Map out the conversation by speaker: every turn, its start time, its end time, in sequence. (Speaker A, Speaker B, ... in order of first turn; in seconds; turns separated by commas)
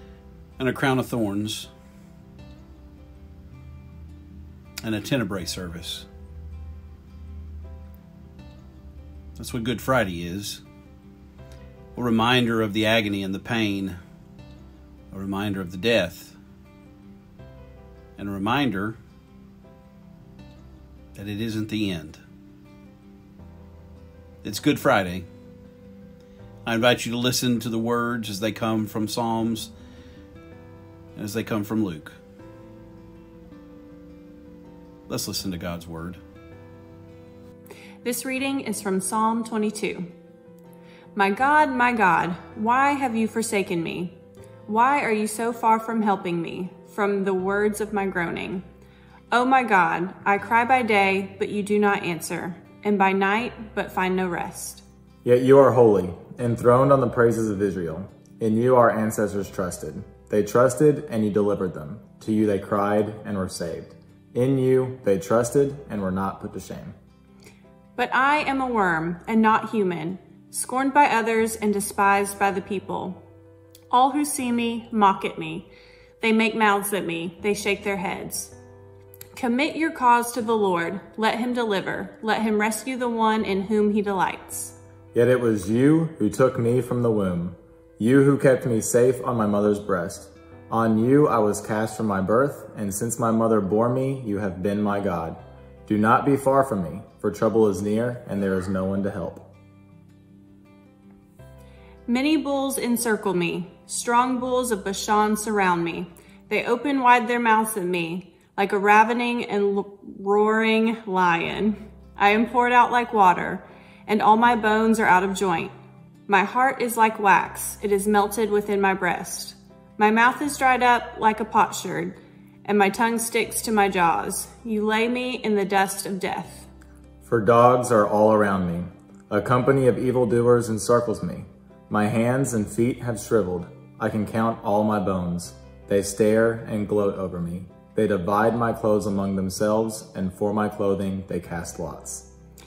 Speaker A: 0.6-1.7, Speaker A: 4.8-6.1, Speaker A: 9.4-10.6, Speaker A: 11.9-14.0, Speaker A: 15.1-16.4, Speaker A: 18.2-19.0, Speaker A: 21.1-22.2, Speaker A: 24.4-25.3, Speaker A: 26.6-29.7, Speaker A: 31.2-32.2, Speaker A: 35.1-36.2, Speaker B: 38.0-40.1, Speaker B: 41.1-48.6, Speaker B: 49.3-54.9, Speaker C: 55.2-67.0, Speaker B: 68.0-73.2, Speaker B: 73.9-75.7, Speaker B: 76.2-78.5, Speaker B: 79.3-84.8, Speaker C: 85.1-99.5, Speaker B: 102.1-115.7, Speaker B: 116.3-126.7, Speaker C: 127.2-142.3